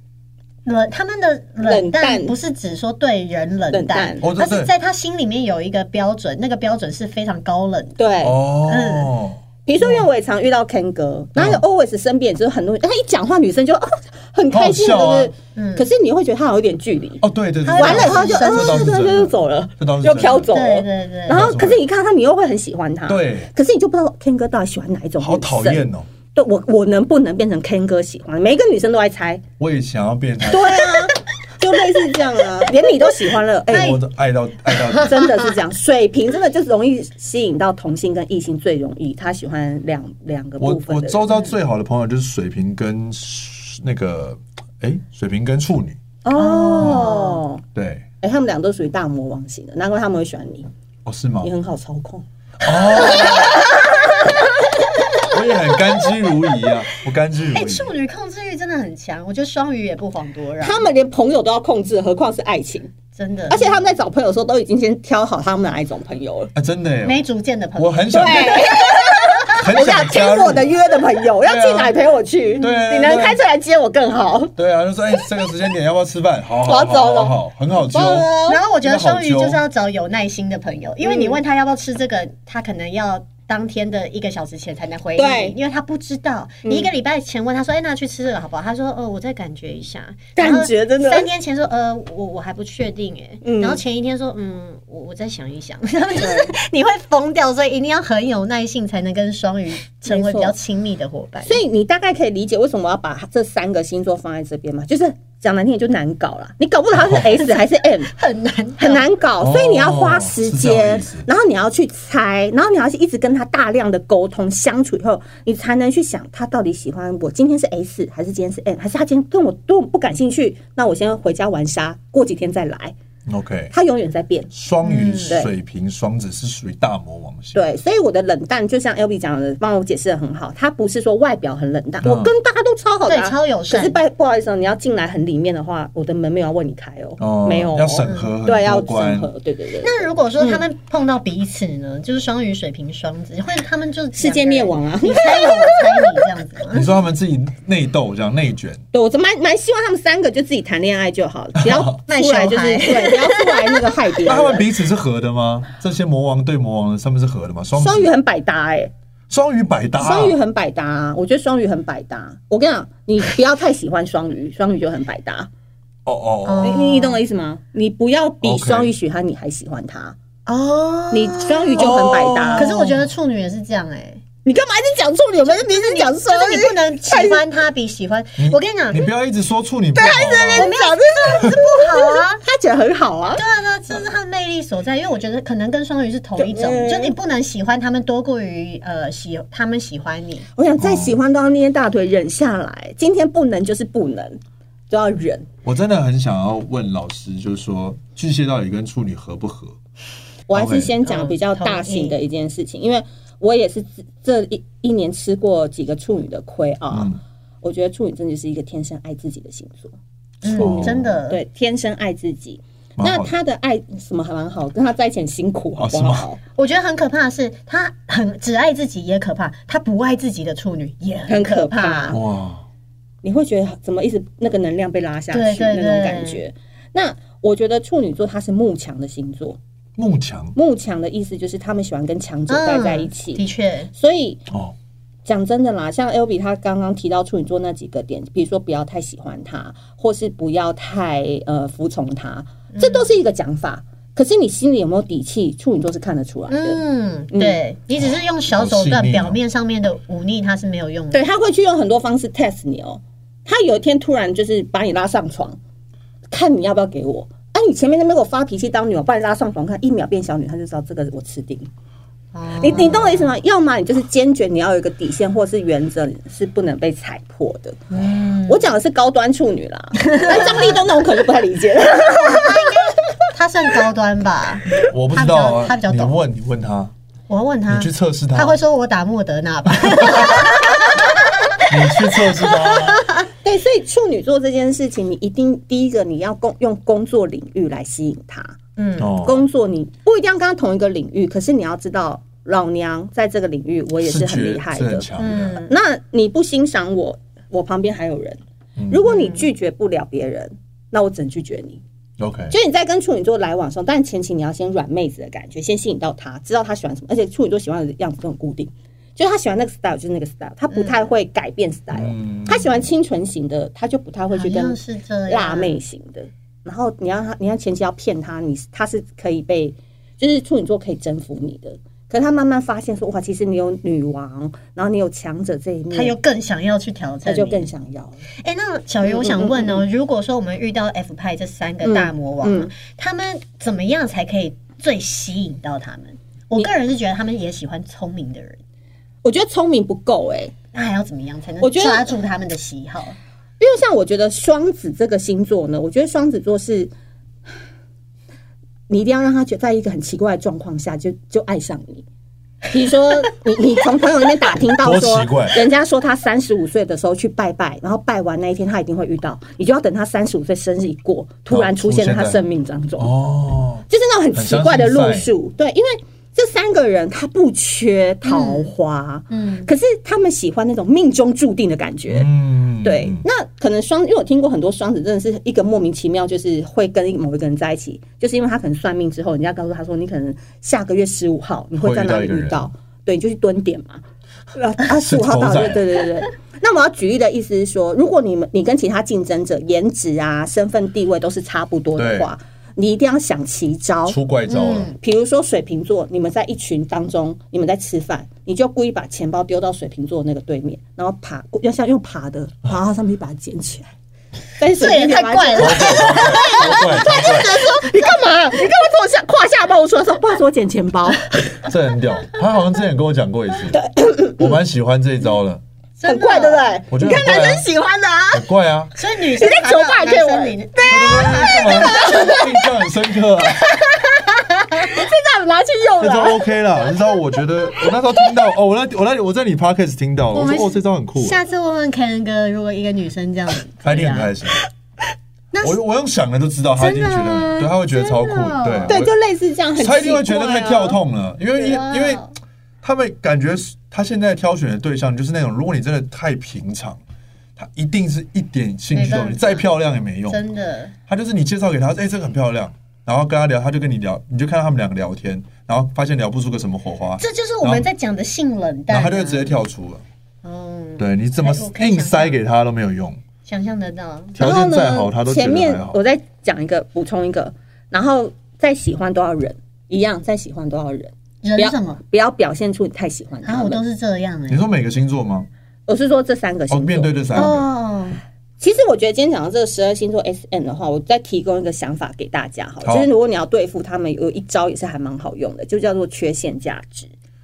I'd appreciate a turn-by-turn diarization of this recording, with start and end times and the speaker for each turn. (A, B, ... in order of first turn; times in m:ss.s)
0:00.6-0:08.0 A
0:01.6-0:02.3 B
0:03.7-0:04.2 B
0:04.2-0:04.7 C
0:08.0-0:08.4 B
0:08.2-0:10.0 C
0:08.6-0:09.1 A
0:09.6-0:17.2 B
0:11.3-0:11.6 C
0:14.5-0:15.3 C
0:15.5-0:15.8 A
0:17.2-0:20.5 C
0:17.6-0:19.0 A
0:17.8-0:29.4 B
0:20.5-0:21.4 A
0:21.3-0:21.8 C
0:23.1-0:23.5 C
0:25.2-0:26.1 C
0:29.6-0:30.9 C
0:30.4-0:34.0 B
0:33.7-0:35.4 C
0:33.7-0:34.0 A
0:34.7-0:35.4 A
0:35.0-0:41.2 B
0:40.6-0:46.0 C
0:46.2-0:47.6 B
0:46.3-0:47.4 A
0:46.8-0:47.1 C
0:47.7-0:48.1 C
0:48.2-0:50.7 B
0:51.0-0:51.5 C
0:51.4-0:52.2 B
0:52.6-0:53.6 C
0:52.9-0:54.5 B
0:53.0-0:53.4 A
0:55.2-0:57.9 C
0:57.5-1:00.8 A
1:00.6-1:02.9 B
1:03.1-1:03.8 A
1:03.5-1:06.5 B
1:06.5-1:07.2 C
1:07.0-1:09.4 A
1:07.8-1:08.7 C
1:08.1-1:14.5 B
1:09.5-1:10.7 C
1:11.4-1:12.0 C
1:12.6-1:13.4 C
1:14.6-1:18.3 C
1:16.6-1:18.6 B
1:18.5-1:41.6 A
1:18.8-1:19.6 C
1:21.0-1:21.4 B
1:25.2-1:25.6 B
1:26.6-1:26.9 B
1:30.4-1:31.3 B
1:33.4-1:33.8 B
1:36.2-1:36.5 B
1:40.0-1:40.5 B
1:41.4-1:48.1 B
1:47.0-1:47.2 C
1:47.4-1:49.1 A
1:48.8-2:02.9 B
1:49.4-1:51.2 C
2:03.2-2:03.7 C
2:03.7-2:04.5 B
2:04.5-2:07.6 C
2:04.8-2:05.4 A
2:07.5-2:20.6 B
2:12.0-2:12.3 C
2:13.0-2:14.0 A
2:17.2-2:19.3 C
2:18.0-2:18.3 A
2:19.8-2:26.9 A
2:24.1-2:26.2 B
2:26.7-2:28.8 C
2:28.9-2:34.7 B
2:31.6-2:32.0 C
2:32.1-2:33.8 A
2:34.2-2:38.1 C
2:37.8-2:38.9 B
2:39.3-2:40.4 C
2:40.0-2:45.5 B
2:46.0-2:46.8 C
2:46.4-2:47.2 A
2:46.6-2:50.2 B
2:48.4-2:48.9 C
2:50.4-2:52.0 A
2:51.1-2:52.7 B
2:51.8-2:53.1 C
2:52.5-2:54.2 A
2:54.4-2:57.4 B
2:55.4-2:59.0 A
2:58.4-3:00.7 C
2:59.9-3:03.4 B
3:00.5-3:02.4 A
3:03.4-3:10.4 A
3:06.4-3:07.1 B
3:10.6-3:15.5 B
3:10.8-3:11.2 C
3:15.6-3:19.8 C
3:20.5-3:29.9 B
3:20.5-3:20.9 C
3:21.0-3:22.2 A
3:26.9-3:27.2 C
3:30.4-3:31.4 A
3:30.4-3:31.2 C
3:30.5-3:36.4 B
3:33.0-3:33.3 C
3:35.8-3:36.3 C
3:36.5-3:42.2 A
3:41.3-3:42.2 B
3:42.1-3:42.6 C
3:43.2-3:49.6 B
3:45.3-3:46.4 A
3:50.0-3:50.6 C
3:50.5-3:54.4 B
3:52.5-3:53.9 A
3:54.5-3:54.7 C
3:55.2-4:07.6 B
4:02.7-4:03.1 A
4:06.5-4:11.2 A
4:08.0-4:09.4 C
4:11.1-4:15.6 B
4:16.3-4:21.7 B
4:22.3-4:23.3 A
4:22.6-4:27.8 B
4:27.9-4:28.7 A
4:28.4-4:32.9 B
4:30.0-4:30.8 A
4:32.0-4:36.1 A
4:34.8-4:36.9 C
4:37.3-4:40.9 A
4:37.7-4:38.6 C
4:39.7-4:40.4 C
4:41.7-4:43.0 C
4:42.2-4:43.2 A
4:43.4-4:55.1 B
4:48.8-4:49.1 A
4:49.0-4:49.4 C
4:54.0-4:55.6 C
4:55.2-4:55.7 A
4:55.6-5:01.8 B
4:58.8-4:59.1 C
4:59.0-4:59.5 A
5:02.2-5:02.5 C
5:02.5-5:26.1 B
5:10.7-5:11.0 A
5:11.9-5:12.9 C
5:14.3-5:15.8 A
5:25.9-5:27.7 A
5:27.2-5:28.2 B
5:28.4-5:38.6 A
5:29.0-5:29.8 B
5:31.8-5:32.7 B
5:39.2-5:40.5 B
5:40.7-5:43.2 A
5:41.6-5:42.1 B
5:43.6-5:46.9 B
5:48.9-5:52.0 B
5:52.6-6:03.1 B
5:54.8-5:55.6 C
6:01.5-6:02.4 C
6:03.0-6:05.3 C
6:03.9-6:24.0 B
6:08.2-6:08.7 A
6:09.3-6:09.7 A
6:12.1-6:13.2 C
6:21.8-6:22.7 C
6:24.5-6:34.2 B
6:24.9-6:25.8 C
6:32.0-6:32.3 C
6:34.1-6:34.9 C
6:34.5-6:34.9 A
6:35.0-6:43.9 B
6:44.6-6:51.3 B
6:44.8-6:46.9 A
6:45.6-6:47.6 C
6:51.6-6:53.8 C
6:53.7-6:54.5 B
6:54.4-6:55.6 C
6:56.0-6:56.8 A
6:56.0-6:58.5 B
6:56.9-6:57.7 C
6:58.3-6:58.9 C
6:59.0-7:02.4 A
6:59.4-7:02.6 B
7:00.9-7:03.6 C
7:03.5-7:06.4 B
7:06.0-7:11.4 C
7:10.3-7:14.3 A
7:13.8-7:14.6 C
7:15.6-7:19.1 C
7:16.8-7:19.0 A
7:18.9-7:21.0 B
7:19.8-7:22.2 C
7:21.6-7:22.2 B
7:22.8-7:27.0 C
7:27.6-7:30.4 C
7:28.9-7:29.6 A
7:30.3-7:30.9 A
7:31.1-7:37.9 C
7:37.2-7:39.5 A
7:38.9-7:40.0 C
7:40.4-7:42.4 A
7:41.0-7:43.2 C
7:43.4-7:44.4 A
7:44.3-7:46.0 C
7:44.4-7:53.8 B
7:51.4-7:52.0 A
7:53.4-7:54.6 A
7:54.5-7:55.5 C
7:55.9-7:57.6 B
7:56.7-7:57.6 C
7:57.3-7:58.2 A
7:58.6-8:07.1 B
8:02.8-8:03.1 C